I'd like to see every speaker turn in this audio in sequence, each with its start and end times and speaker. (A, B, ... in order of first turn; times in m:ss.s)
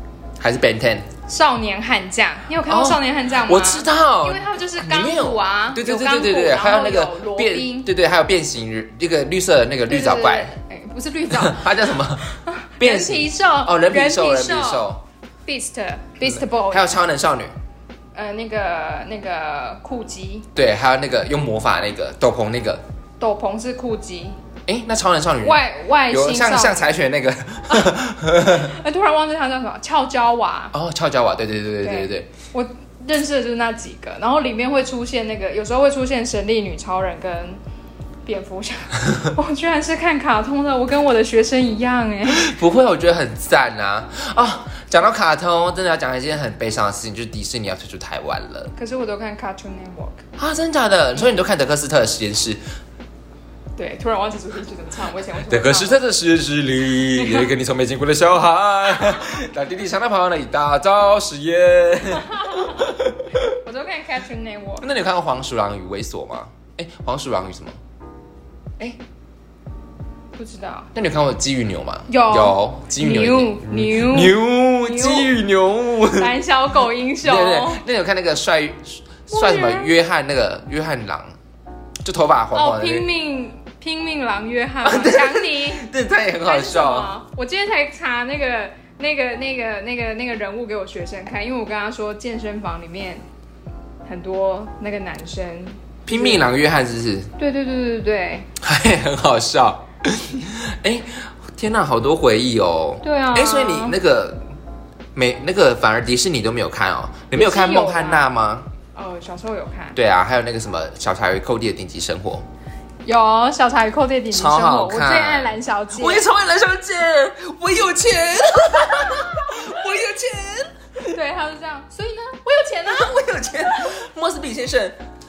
0:00.4-0:01.1 A
0:01.3-0:07.9 B
0:02.7-0:10.5 A
0:09.9-0:14.9 B
0:11.3-0:15.0 A
0:15.4-0:17.0 B
0:16.2-0:17.5 A
0:18.1-0:20.5 B
0:20.5-0:22.8 A
0:23.2-0:24.4 B
0:24.7-0:28.7 A
0:25.4-0:26.9 B
0:28.4-0:30.7 B
0:30.7-0:32.3 A
0:31.8-0:37.6 B
0:38.2-0:42.5 B
0:42.2-0:48.7 A
0:48.7-0:50.2 B
0:50.4-0:52.6 A
0:53.8-0:56.0 B
0:55.5-1:03.4 A
0:57.2-0:57.5 B
0:59.0-0:59.4 B
1:02.2-1:02.9 B
1:03.5-1:04.9 B
1:04.8-1:07.7 A
1:10.4-1:10.9 B
1:10.9-1:16.3 A
1:12.1-1:15.4 B
1:16.1-1:17.8 B
1:17.2-1:21.3 A
1:19.3-1:19.9 B
1:22.0-1:23.1 A
1:22.5-1:25.9 B
1:24.8-1:27.1 A
1:26.4-1:33.2 B
1:34.0-1:36.5 B
1:36.1-1:37.3 A
1:37.4-1:38.5 B
1:38.6-1:44.4 A
1:43.0-1:44.0 B
1:45.1-1:48.7 A
1:47.3-1:48.3 B
1:48.9-1:50.0 B
1:49.9-1:52.4 A
1:53.0-1:56.3 B
1:54.3-2:01.2 A
1:59.1-1:59.5 B
2:01.1-2:03.2 B
2:02.9-2:05.0 A